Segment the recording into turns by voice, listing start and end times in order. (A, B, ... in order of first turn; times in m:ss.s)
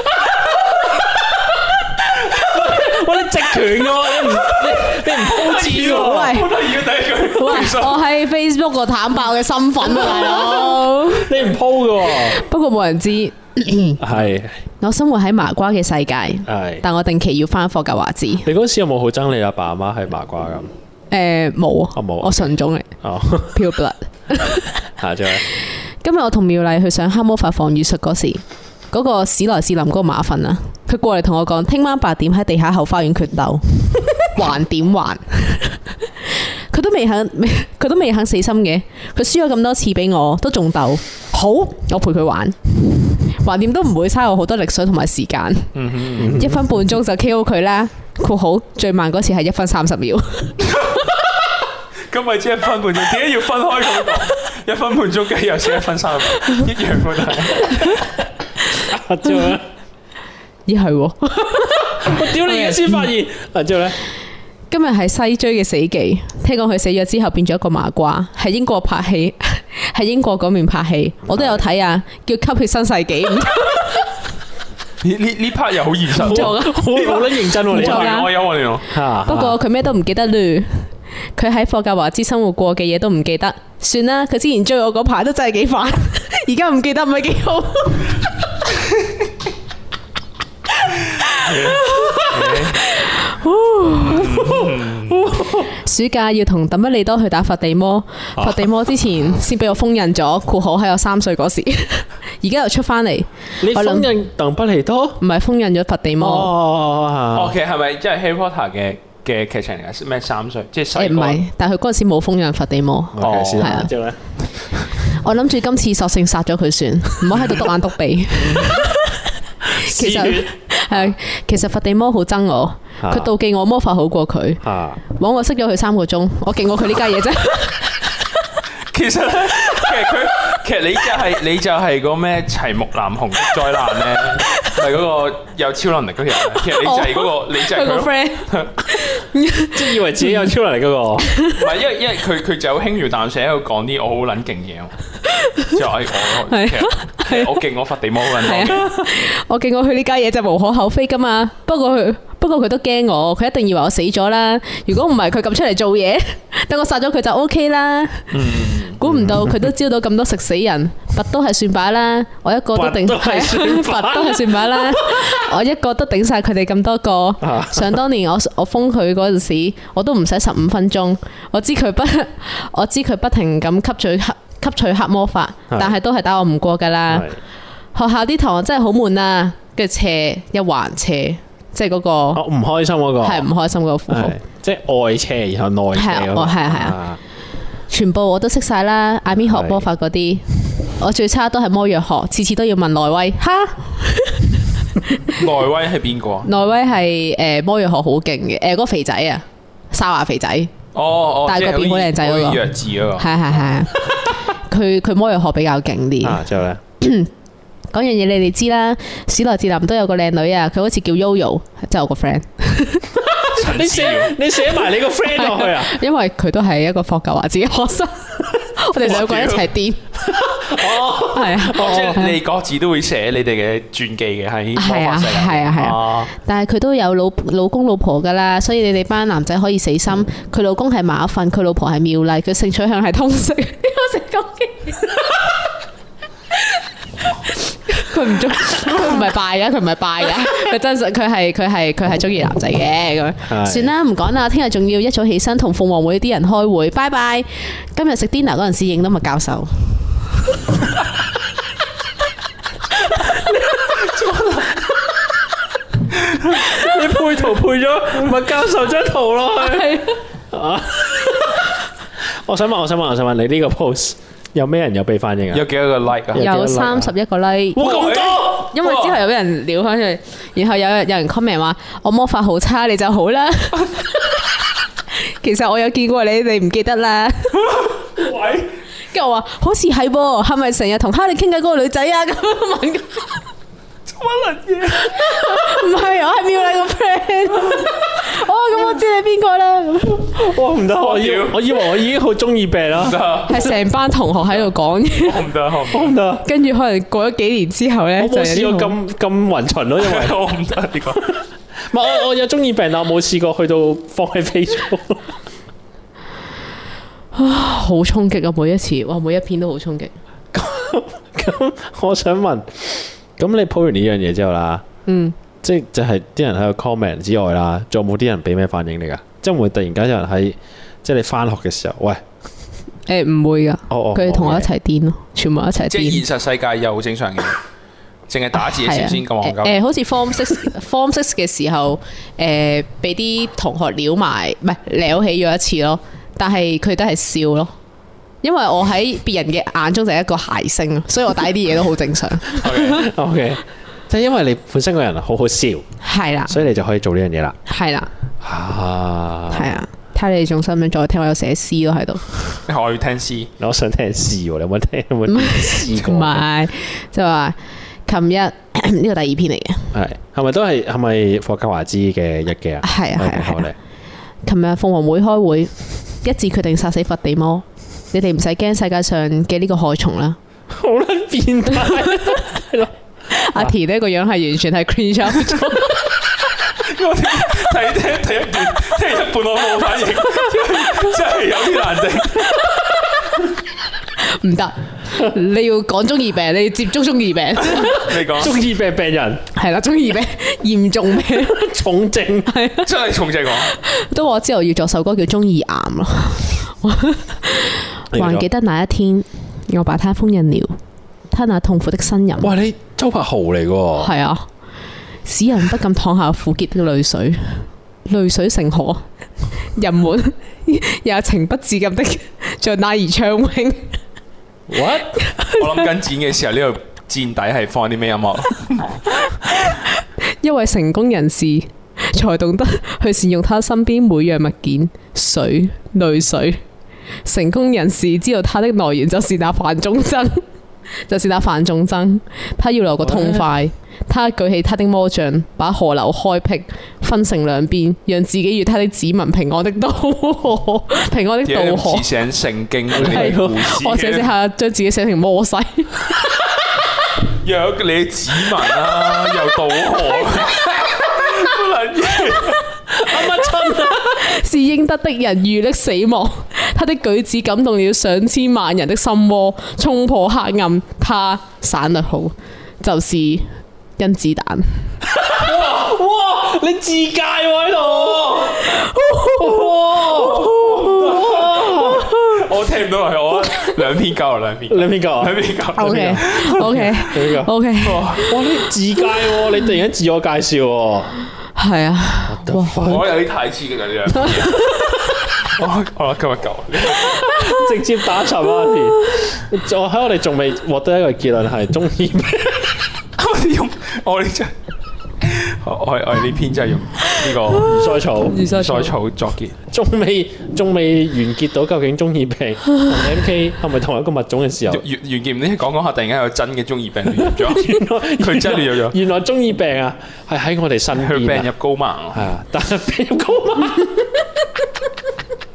0:00.4-0:06.4 A
0:04.2-0:08.1 B
0:05.8-0:06.6 C
0:07.3-0:11.3 C
0:11.1-0:12.4 A
0:12.1-0:14.0 C
0:14.0-0:14.6 A
0:14.8-0:18.5 C
0:16.4-0:16.8 A
0:18.4-0:20.7 A
0:21.1-0:22.9 C
0:21.9-0:22.5 A
0:23.0-0:23.7 A
0:23.5-0:24.7 C
0:24.8-0:25.4 A
0:26.0-0:45.7 C
0:45.7-0:46.5 B
0:46.2-0:46.6 A
0:46.2-0:50.6 C
0:50.6-0:51.2 B
0:52.1-0:58.0 B
0:58.8-0:59.6 A
0:59.3-0:59.6 C
1:00.6-1:03.1 C
1:02.0-1:04.0 A
1:04.7-1:14.1 C
1:11.3-1:11.7 A
1:15.0-1:18.9 B
1:16.2-1:18.3 A
1:16.2-1:17.0 C
1:17.7-1:18.3 C
1:18.9-1:19.6 A
1:19.2-1:28.3 C
1:31.1-1:34.6 C
1:31.3-1:32.8 B
1:34.0-1:35.4 B
1:34.4-1:35.7 A
1:35.6-1:44.1 C
1:38.4-1:38.7 A
1:43.6-1:45.2 A
1:45.2-1:46.5 C
1:46.2-1:47.6 A
1:47.3-1:51.4 B
1:50.9-1:53.9 C
1:53.2-1:54.2 A
1:53.2-1:53.9 B
1:55.1-1:59.0 C
1:58.4-1:59.0 A
1:59.6-2:00.5 A
1:59.8-2:07.9 C
2:03.0-2:03.3 A
2:04.6-2:05.0 A
2:08.9-2:18.7 B
2:16.7-2:20.5 C
2:19.7-2:21.3 A
2:21.5-2:24.9 B
2:25.3-2:25.8 C
2:25.6-2:28.9 B
2:26.5-2:27.5 C
2:28.4-2:57.3 C
2:38.3-2:39.0 B
2:39.0-2:39.6 A
2:42.7-2:45.4 A
2:47.4-2:48.0 A
2:55.7-2:55.9 A
2:57.1-2:57.4 A
2:57.9-3:02.4 C
3:02.3-3:03.5 A
3:03.2-3:04.4 C
3:04.1-3:07.2 A
3:05.9-3:07.0 C
3:07.9-3:15.4 C
3:09.4-3:09.9 A
3:15.3-3:16.5 B
3:16.4-3:20.7 C
3:20.9-3:23.3 B
3:21.4-3:26.4 C
3:26.2-3:26.8 A
3:27.0-3:27.3 C
3:27.9-3:33.1 C
3:33.4-3:34.3 B
3:33.4-3:36.0 A
3:34.8-3:40.0 C
3:39.0-3:39.7 B
3:40.2-3:42.0 A
3:41.1-3:42.4 C
3:41.6-3:46.3 B
3:44.8-3:55.5 C
3:57.8-4:10.0 C
4:03.5-4:03.9 A
4:13.3-4:13.6 A
4:14.0-4:14.9 B
4:16.3-4:16.6 B
4:16.5-4:25.6 A
4:19.6-4:20.2 C
4:25.5-4:26.5 B
4:26.3-4:27.1 A
4:26.3-4:34.5 C
4:27.8-4:28.5 A
4:27.8-4:29.2 B
4:35.1-4:37.8 C
4:37.7-4:38.7 B
4:39.1-4:43.4 C
4:44.1-4:45.3 B
4:45.0-4:50.4 C
4:50.3-4:53.3 A
4:51.0-4:51.6 B
4:53.0-4:53.7 B
4:53.5-4:55.5 C
4:55.1-4:56.2 B
4:55.9-4:56.4 A
4:56.4-4:58.9 C
4:58.2-5:00.4 A
5:00.0-5:01.3 B
5:01.9-5:05.3 A
5:07.3-5:10.1 C
5:10.5-5:14.8 A
5:15.0-5:15.4 C
5:15.6-5:22.2 A
5:23.1-5:26.2 C
5:23.9-5:24.7 A
5:25.8-5:27.6 B
5:28.3-5:29.8 B
5:28.5-5:37.7 C
5:38.4-5:43.0 C
5:42.5-5:43.1 B
5:42.9-5:45.8 A
5:46.0-5:46.6 C
5:46.4-5:47.6 A
5:47.6-5:48.1 C
5:48.4-5:49.8 A
5:49.5-5:52.2 C
5:52.6-5:53.5 B
5:53.6-5:56.4 A
5:55.3-5:59.9 C
5:59.9-6:03.8 A
6:02.8-6:03.7 C
6:04.4-6:10.4 C
6:10.7-6:12.9 A
6:13.3-6:16.1 C
6:16.7-6:22.6 B
6:24.2-6:28.2 C
6:27.7-6:28.6 B
6:28.2-6:29.5 A
6:29.5-6:31.6 C
6:31.3-6:32.5 A
6:32.5-6:32.9 C
6:32.8-6:33.7 B
6:33.7-6:40.8 C
6:38.1-6:38.4 A
6:41.3-6:42.5 C
6:42.4-6:44.1 A
6:44.0-6:44.5 C
6:45.2-6:49.0 C
6:49.6-6:54.0 C
6:54.7-6:55.2 A
6:55.2-6:55.9 C
6:55.5-6:59.0 B
6:59.3-7:06.6 C
7:07.2-7:10.4 C
7:11.1-7:22.1 C
7:13.0-7:13.4 A
7:21.4-7:24.3 B
7:22.9-7:23.5 A
7:22.9-7:26.1 C
7:27.4-7:32.6 B
7:32.9-7:34.3 A
7:33.4-7:44.7 C
7:45.1-7:52.1 A
7:45.4-7:45.7 B
7:48.5-7:49.6 C
7:50.1-7:56.8 B
7:54.7-7:57.5 A
7:55.8-7:58.3 C
7:57.8-7:58.3 B
7:58.2-8:01.1 A
8:01.6-8:03.0 C
8:02.3-8:03.1 A
8:02.7-8:04.6 B
8:04.2-8:04.9 C
8:05.5-8:07.2 B
8:07.0-8:12.9 A
8:13.2-8:14.5 B
8:15.2-8:17.7 B
8:17.6-8:18.5 A
8:18.3-8:18.9 C
8:18.4-8:19.5 B
8:19.7-8:24.8 A
8:24.7-8:29.0 B
8:27.1-8:31.5 A
8:30.9-8:32.2 B
8:32.1-8:34.6 A